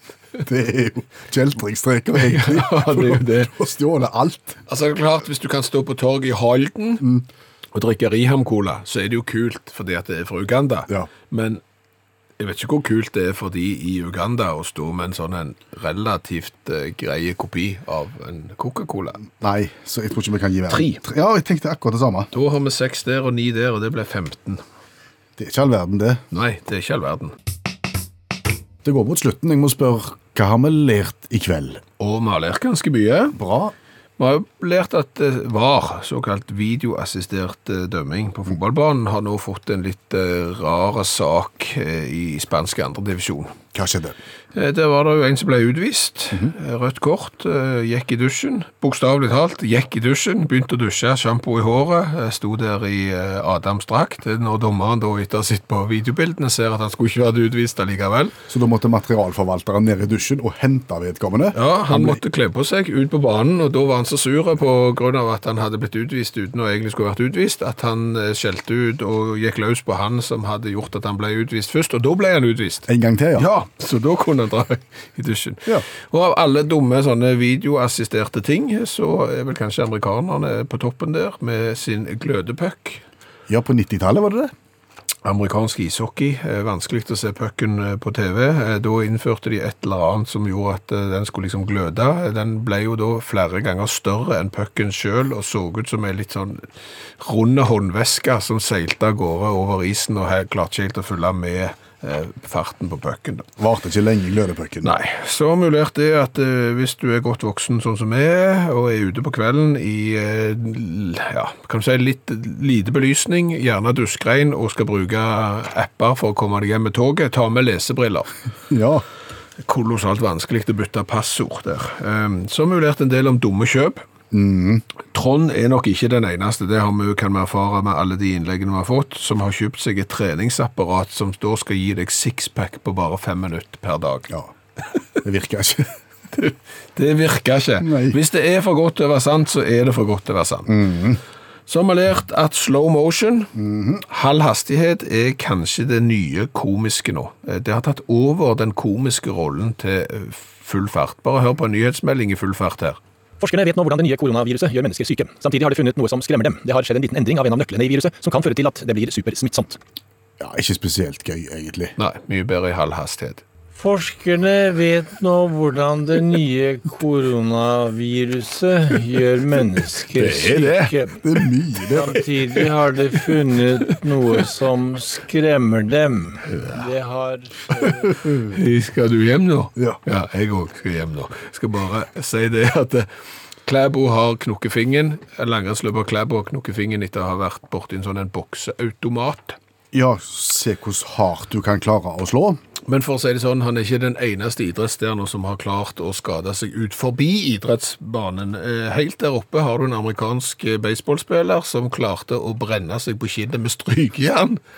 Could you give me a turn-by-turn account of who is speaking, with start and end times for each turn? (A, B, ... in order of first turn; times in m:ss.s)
0:00.4-0:04.6 A
0:02.2-0:03.5 B
0:04.7-0:07.0 B
0:07.0-0:07.2 A
0:07.7-0:11.6 B
0:12.4-0:19.2 B
0:19.3-0:22.3 A
0:20.7-0:21.0 B
0:22.3-0:24.6 B
0:25.4-0:26.2 A
0:26.3-0:27.3 B
0:28.8-0:31.8 A
0:32.0-0:33.4 B
0:33.3-0:33.7 A
0:34.2-0:43.5 B
0:43.7-0:44.2 A
0:44.5-0:58.3 B
0:58.5-1:02.2 A
1:01.5-1:23.0 B
1:12.9-1:13.5 A
1:23.5-1:24.5 A
1:25.2-1:36.6 B
1:37.2-1:43.5 B
1:43.6-1:45.0 A
1:44.8-1:58.3 B
1:58.7-1:59.0 A
1:59.6-2:04.0 B
2:04.3-2:04.8 A
2:05.1-2:14.3 B
2:15.2-2:15.9 A
2:16.3-2:20.9 B
2:17.8-2:18.2 A
2:20.7-2:21.2 A
2:21.7-2:23.5 B
2:23.5-2:24.0 A
2:24.1-2:33.0 B
2:33.4-2:39.8 C
2:40.4-2:41.9 A
2:42.0-2:43.4 B
2:43.7-2:51.2 D
2:50.1-2:50.9 B
2:51.2-2:52.2 A
2:51.9-2:58.2 D
2:58.3-3:03.1 B
3:03.6-3:09.6 B
3:09.9-3:12.6 A
3:12.9-3:24.6 B